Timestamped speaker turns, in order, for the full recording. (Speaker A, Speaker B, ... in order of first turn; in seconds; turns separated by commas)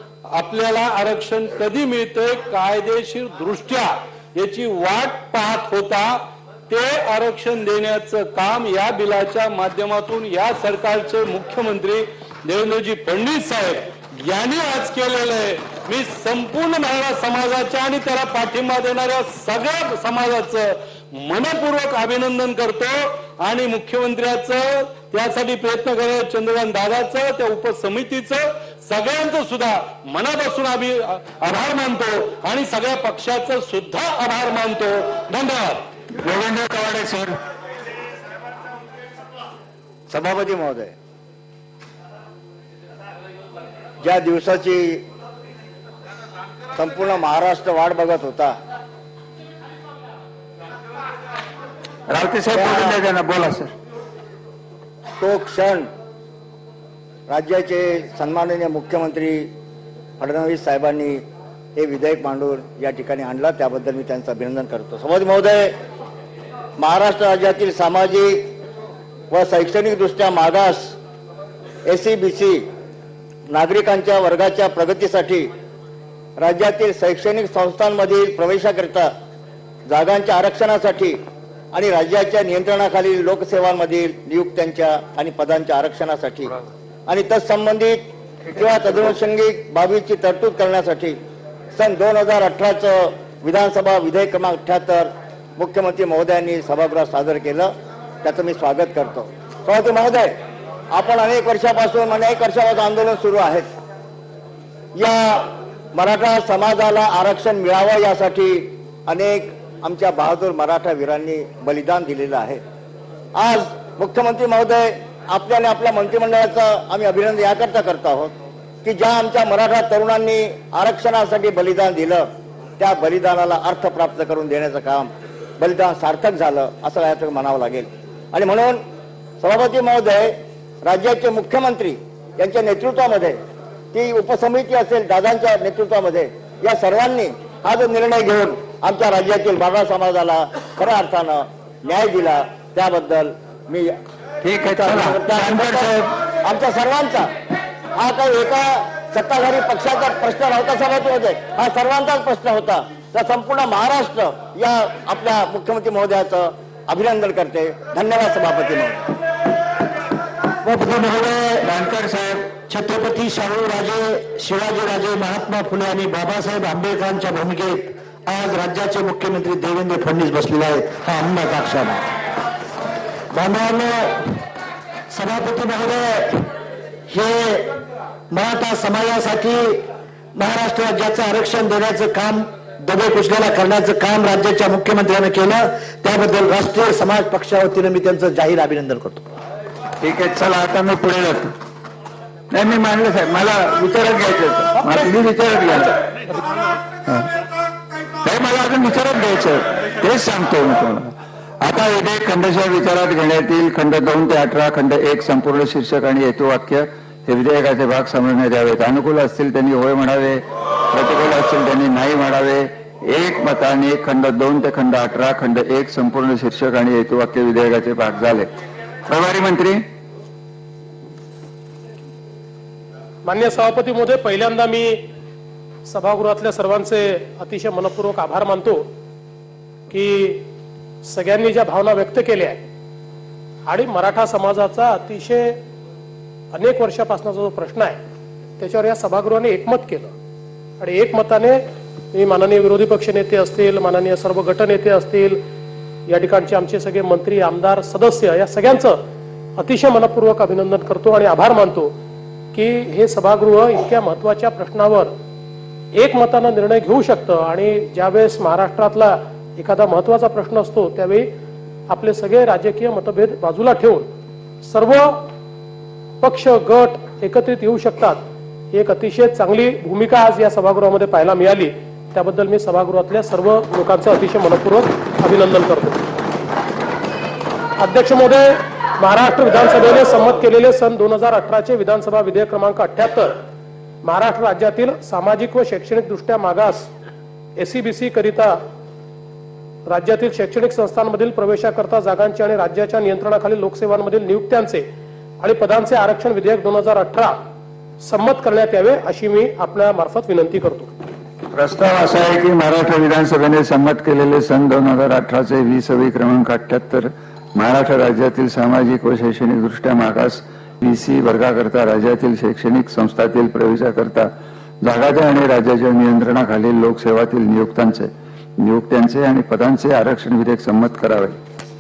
Speaker A: 0.3-35.8, Speaker B: 36.2-37.3, Speaker C: 40.1-40.9, Speaker C: 44.0-45.0, Speaker C: 46.8-48.5, Speaker B: 52.1-53.7, Speaker C: 52.5-53.0, Speaker C: 55.2-55.9, Speaker C: 57.3-59.5, Speaker C: 60.2-61.2, Speaker C: 61.8-65.7, Speaker C: 66.8-68.5, Speaker C: 69.3-71.0, Speaker C: 71.8-72.7, Speaker C: 73.5-75.5, Speaker C: 76.4-79.1, Speaker C: 79.9-81.2, Speaker C: 81.7-86.5, Speaker C: 87.1-91.2, Speaker C: 91.8-97.7, Speaker C: 98.2-100.3, Speaker C: 100.9-103.7, Speaker C: 105.0-112.6, Speaker C: 113.3-118.3, Speaker C: 118.8-122.3, Speaker C: 122.8-128.8, Speaker C: 129.4-133.4, Speaker C: 133.9-143.9, Speaker B: 144.4-146.0, Speaker C: 144.7-147.3, Speaker C: 147.9-159.1, Speaker D: 160.6-161.6, Speaker B: 161.7-162.5, Speaker D: 162.7-172.1, Speaker D: 173.3-174.4, Speaker D: 175.1-176.5, Speaker D: 177.1-177.7, Speaker D: 178.3-179.8, Speaker D: 180.3-189.2, Speaker B: 190.0-191.5, Speaker B: 192.5-195.9, Speaker B: 198.2-210.4, Speaker B: 210.9-218.5, Speaker B: 219.1-219.8, Speaker E: 223.2-225.0, Speaker E: 225.8-228.9, Speaker E: 229.9-230.5, Speaker E: 231.0-232.6, Speaker E: 233.7-235.6, Speaker E: 236.5-238.0, Speaker E: 238.6-240.1, Speaker E: 240.8-241.6, Speaker E: 242.1-245.4, Speaker E: 246.1-249.0, Speaker E: 249.6-251.9, Speaker E: 252.5-255.1, Speaker E: 255.9-261.3, Speaker E: 261.9-264.1, Speaker E: 264.6-265.3, Speaker E: 266.2-276.1, Speaker E: 277.8-283.3, Speaker E: 284.0-286.9, Speaker E: 287.6-288.6, Speaker E: 289.9-294.9, Speaker E: 295.4-297.4, Speaker E: 298.0-300.9, Speaker B: 301.5-314.3, Speaker B: 314.8-321.4